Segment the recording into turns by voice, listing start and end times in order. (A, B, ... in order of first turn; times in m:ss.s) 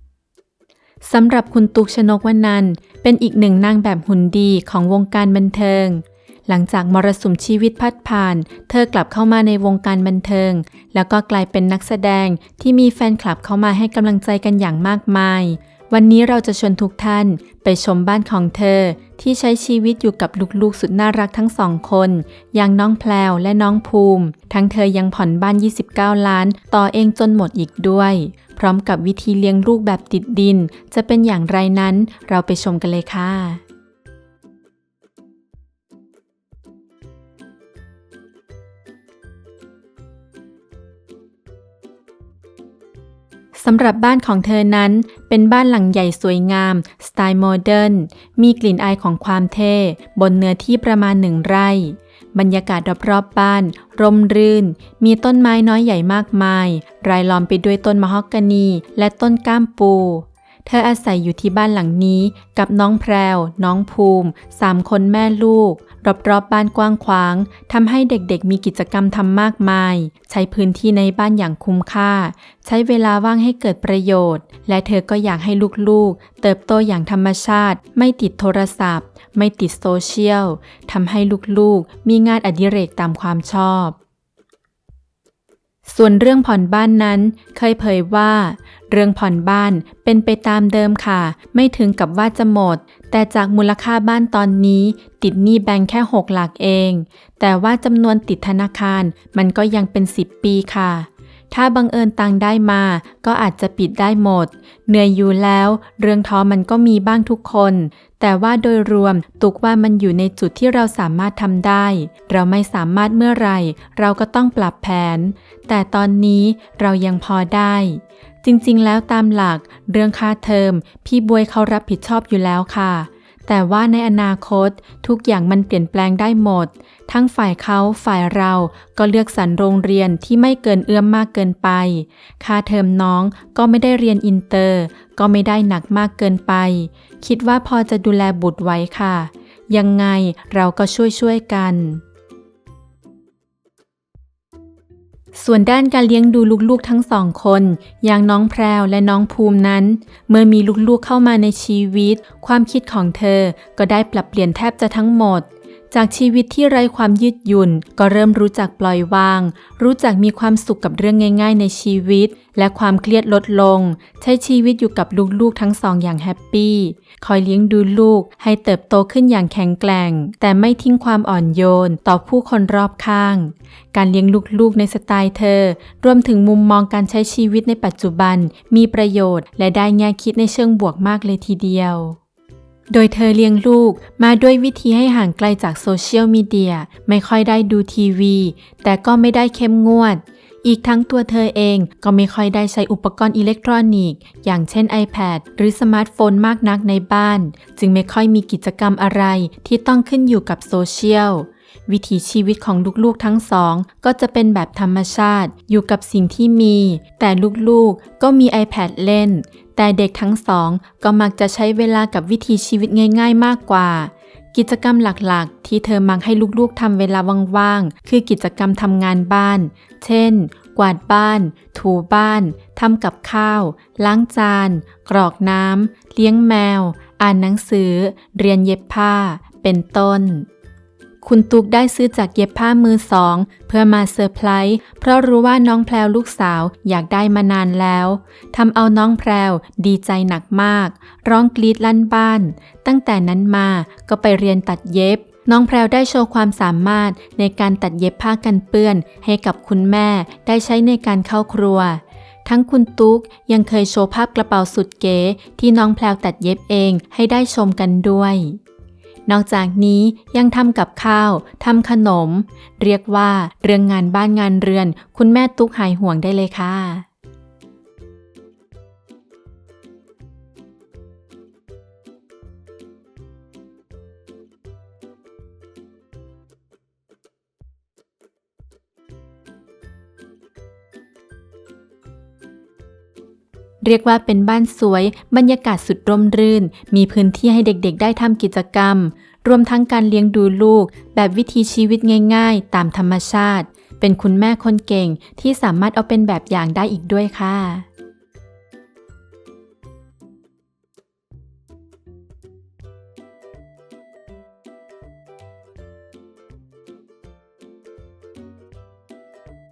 0:01.0-0:33.6 A
0:43.5-1:24.0 A
1:25.8-2:22.0 A
2:25.3-3:02.2 A
3:02.9-3:50.4 A
3:51.2-4:18.6 A
4:19.3-4:27.0 A
4:43.8-4:57.8 A